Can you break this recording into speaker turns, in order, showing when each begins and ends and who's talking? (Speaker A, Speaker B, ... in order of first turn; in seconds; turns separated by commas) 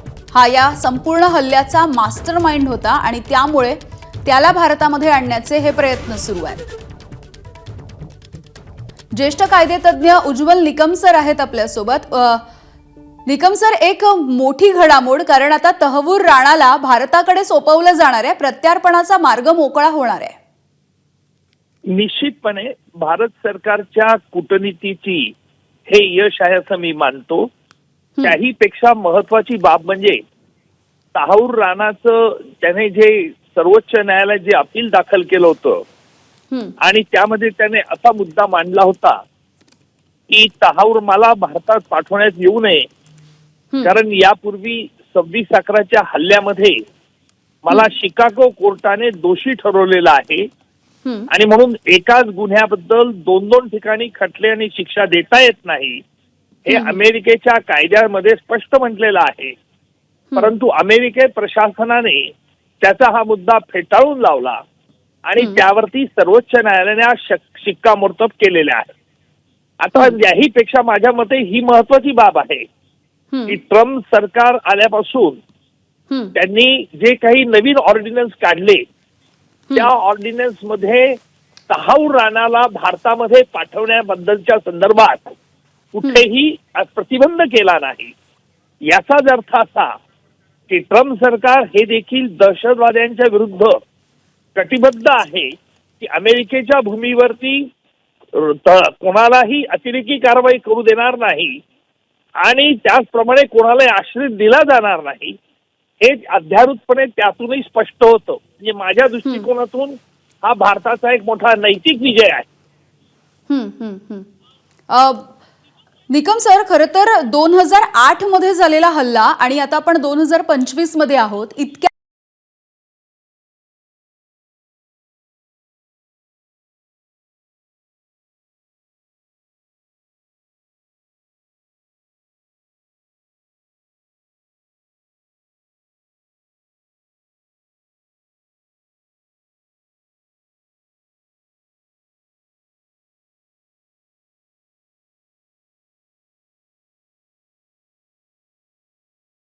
Speaker A: 0.3-6.7, Speaker A: 9.1-12.5, Speaker A: 13.3-20.4, Speaker B: 21.9-25.2, Speaker B: 25.9-27.5, Speaker B: 28.2-30.2, Speaker B: 31.1-35.8, Speaker B: 36.8-39.2, Speaker B: 40.3-42.8, Speaker B: 43.8-46.8, Speaker B: 47.6-50.4, Speaker B: 51.3-56.0, Speaker B: 56.6-59.5, Speaker A: 56.7-57.0, Speaker B: 60.3-64.6, Speaker B: 65.3-68.9, Speaker B: 69.8-72.6, Speaker A: 69.9-70.2, Speaker A: 73.3-73.6, Speaker B: 73.5-75.4, Speaker B: 76.3-78.8, Speaker B: 79.7-81.2, Speaker B: 81.7-85.3, Speaker B: 85.9-88.1, Speaker B: 88.9-89.9, Speaker B: 90.7-93.7, Speaker B: 94.5-97.7, Speaker B: 98.3-101.6, Speaker B: 102.4-105.3, Speaker B: 106.0-112.4, Speaker A: 113.5-114.3, Speaker A: 114.9-115.3, Speaker A: 116.1-121.9